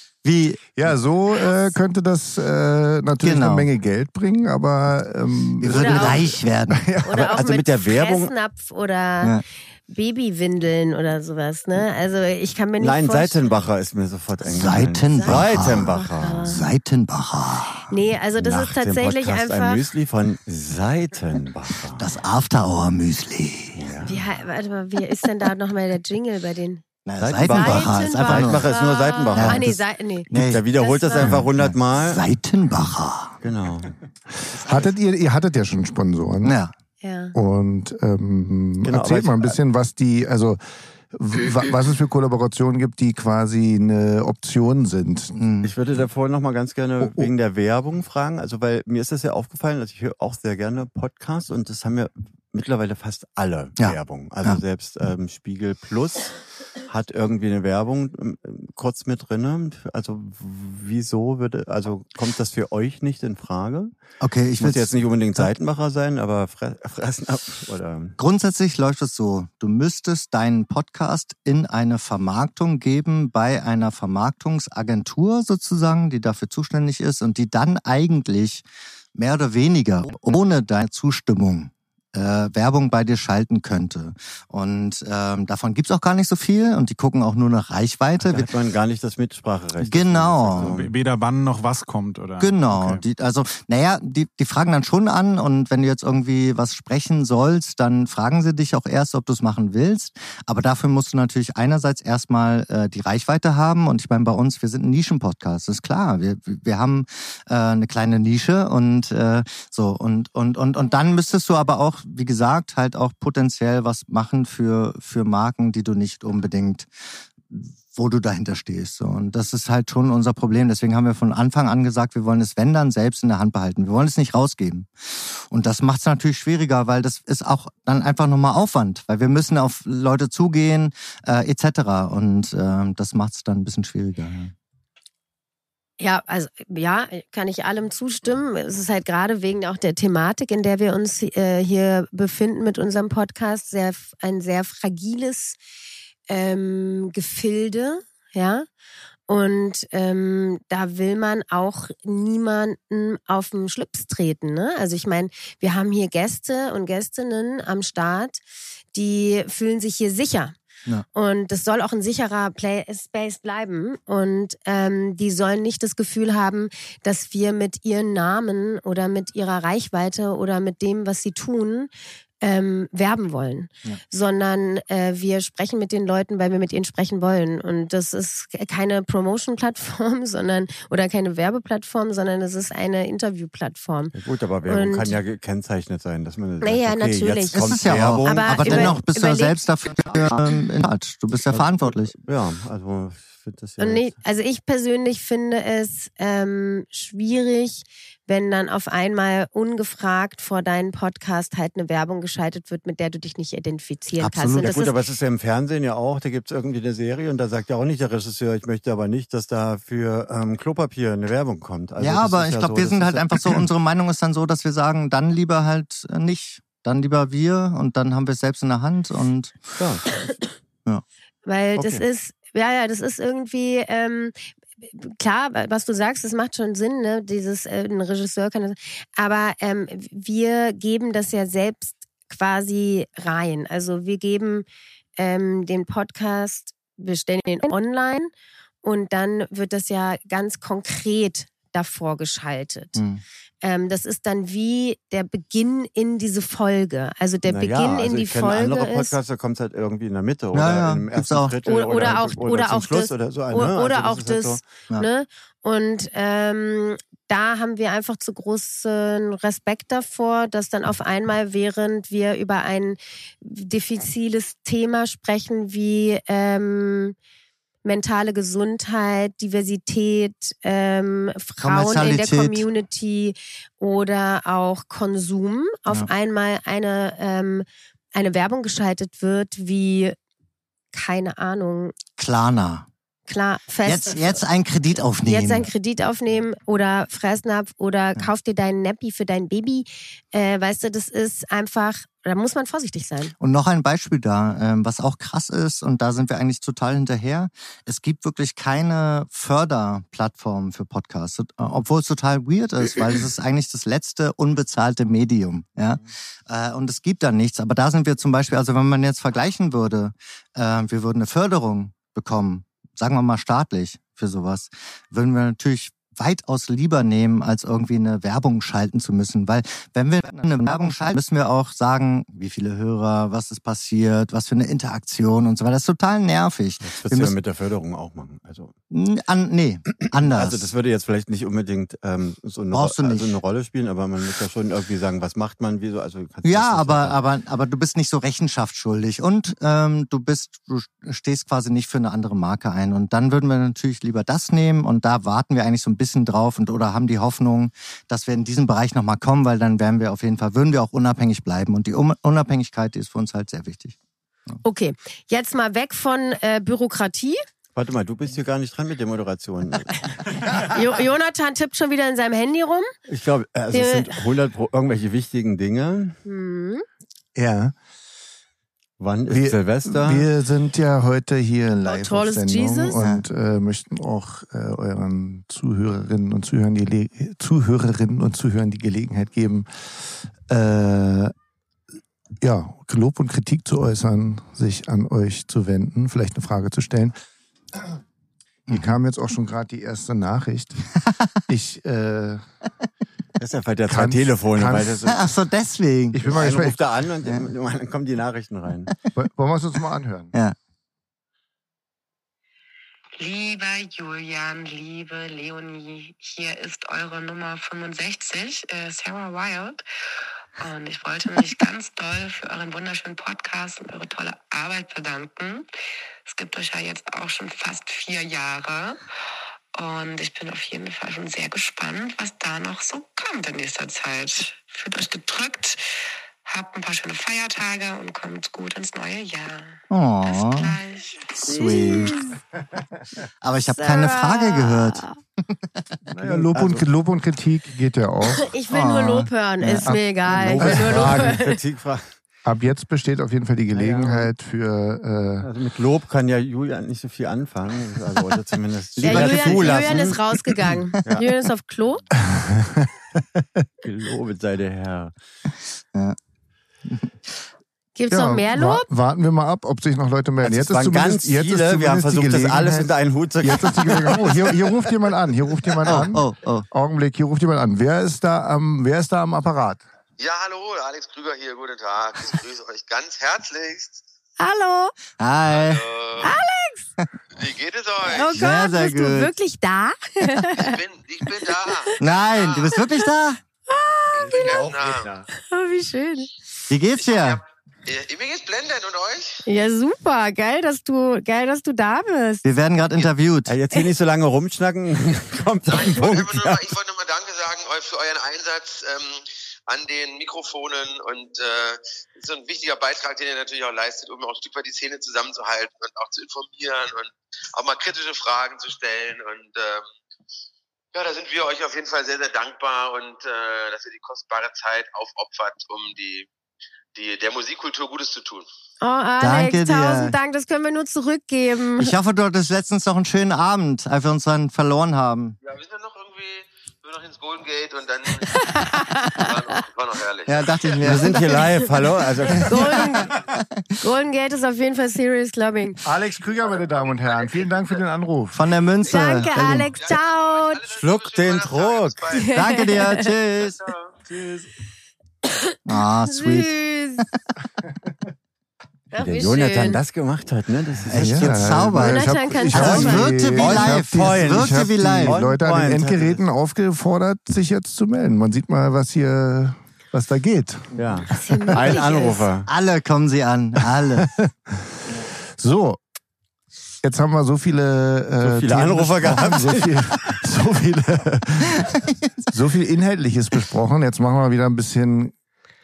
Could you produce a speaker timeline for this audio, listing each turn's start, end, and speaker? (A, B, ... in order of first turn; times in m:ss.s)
0:00.2-0:01.0 A
0:00.8-0:07.2 B
0:03.2-0:03.7 A
0:05.6-0:06.9 A
0:05.7-0:06.4 C
0:07.0-0:13.4 C
0:07.1-0:08.3 D
0:12.8-0:16.6 D
0:14.4-0:15.9 A
0:15.1-0:16.7 C
0:16.4-0:17.9 A
0:17.9-0:19.8 C
0:18.4-0:22.1 D
0:22.0-0:23.9 A
0:23.8-0:24.2 D
0:24.1-0:26.8 C
0:27.0-0:28.7 A
0:27.2-0:32.2 D
0:27.4-0:31.3 C
0:29.3-0:29.8 A
0:30.3-0:33.4 A
0:33.4-0:34.0 D
0:34.4-0:36.6 B
0:34.6-0:34.9 A
0:36.4-0:36.7 A
0:37.0-0:37.4 C
0:37.3-0:45.4 B
0:38.8-0:39.6 D
0:45.4-0:45.7 A
0:45.6-1:03.9 D
0:47.0-0:47.3 B
0:53.8-0:54.6 A
1:04.2-1:05.5 A
1:04.6-1:08.2 D
1:08.2-1:28.5 A
1:28.2-1:30.9 D
1:29.8-1:30.8 A
1:30.6-1:33.0 E
1:32.4-2:14.5 A
2:16.0-2:25.6 C
2:26.3-2:28.7 C
2:29.3-2:38.4 C
2:38.9-2:40.5 C
2:41.2-3:04.1 C
3:04.1-3:09.0 D
3:04.7-3:05.2 C
3:06.6-3:09.6 C
3:07.5-3:12.2 A
3:11.5-3:14.1 D
3:13.8-3:24.9 C
3:24.2-3:24.8 A
3:24.6-3:33.7 D
3:32.0-3:39.6 A
3:39.8-3:40.3 D
3:41.5-3:54.7 C
3:41.8-3:42.0 D
3:55.2-3:58.3 C
3:58.8-4:03.0 C
4:03.0-4:03.2 A
4:03.6-4:09.1 C
4:07.5-4:14.6 D
4:10.5-4:11.6 A
4:11.7-4:27.2 C
4:27.8-4:40.2 C
4:31.6-4:32.7 A
4:40.9-4:42.0 C
4:42.2-4:42.9 A
4:43.3-4:44.3 C
4:43.8-4:45.7 A
4:45.2-4:53.3 C
4:53.4-5:27.4 A
5:26.8-5:28.7 D
5:28.9-5:30.7 A
5:30.0-5:37.2 D
5:32.7-5:33.4 A
5:36.4-5:54.0 A
5:54.6-5:57.4 C
5:57.8-6:00.1 D
6:00.6-6:02.9 C
6:03.1-6:06.2 D
6:03.7-6:04.2 C
6:06.2-6:06.8 C
6:07.4-6:07.7 B
6:09.0-6:10.3 D
6:09.3-6:21.3 B
6:11.8-6:13.0 C
6:22.4-6:27.2 B
6:28.7-6:28.9 A
6:28.7-6:30.9 B
6:31.5-6:32.6 B
6:33.4-6:35.3 D
6:33.9-6:35.0 B
6:35.1-6:36.4 A
6:36.1-6:36.8 B
6:36.2-6:38.9 D
6:39.2-6:40.3 B
6:43.2-6:49.8 F
6:50.6-6:55.7 F
6:56.3-6:59.0 F
6:59.8-7:05.8 F
7:06.5-7:11.2 F
7:09.9-7:10.8 A
7:11.3-7:12.2 A
7:11.4-7:12.4 C
7:13.4-7:16.0 A
7:13.7-7:15.2 C
7:16.1-7:18.5 B
7:16.2-7:16.8 D
7:18.4-7:21.6 C
7:18.7-7:20.0 A
7:20.3-7:22.0 D
7:20.6-7:21.2 B
7:22.4-7:25.5 B
7:23.7-7:24.3 D
7:25.4-7:30.2 D
7:29.0-7:32.0 C
7:29.1-7:29.8 B
7:29.3-7:29.6 A
7:32.2-7:33.6 B
7:33.8-7:35.1 D
7:36.8-7:37.3 A
7:38.0-7:38.9 C
7:38.1-7:42.9 B
7:40.4-7:44.6 D
7:43.4-7:49.8 B
7:45.8-7:46.7 A
7:50.2-7:54.0 G
7:54.4-7:54.9 C
7:55.2-7:55.8 A
7:55.5-7:56.3 G
7:56.2-7:56.9 C
7:57.4-7:58.3 G
7:58.0-8:00.8 C
7:58.3-7:59.3 A
8:00.5-8:02.8 G
8:02.0-8:03.4 A
8:02.8-8:03.1 C
8:03.7-8:04.7 C
8:04.3-8:05.1 G
8:04.3-8:05.2 E
8:05.3-8:06.3 C
8:06.7-8:07.4 A
8:07.0-8:09.4 G
8:09.5-8:12.4 C
8:12.4-8:13.5 A
8:13.0-8:16.7 D
8:15.7-8:29.9 G
8:31.0-8:36.3 G
8:37.0-8:38.5 G
8:38.8-8:41.9 C
8:39.2-8:40.2 A
8:41.8-8:45.4 A
8:45.5-8:51.4 G
8:48.3-8:49.3 C
8:50.3-8:51.4 A
8:50.8-8:52.6 D
8:52.3-8:53.6 A
8:52.4-8:53.1 C
8:53.8-8:55.8 C
8:55.8-8:58.4 B
8:58.3-8:59.7 A
8:58.8-9:00.7 C
8:59.7-9:02.5 G
9:00.8-9:02.1 D
9:02.1-9:03.1 C
9:02.3-9:03.7 A
9:03.4-9:03.9 G
9:04.1-9:04.4 E
9:05.4-9:07.1 C
9:05.7-9:06.5 A
9:08.9-9:09.8 C
9:09.0-9:11.7 D
9:10.9-9:15.2 A
9:10.9-9:21.5 B
9:11.8-9:13.1 C
9:12.5-9:16.2 D
9:20.8-9:22.5 D
9:21.1-9:22.2 C
9:22.5-9:24.1 A
9:24.0-9:24.3 B
9:25.4-9:25.8 B
9:26.8-9:31.8 B
9:28.2-9:30.2 D
9:32.3-9:35.1 B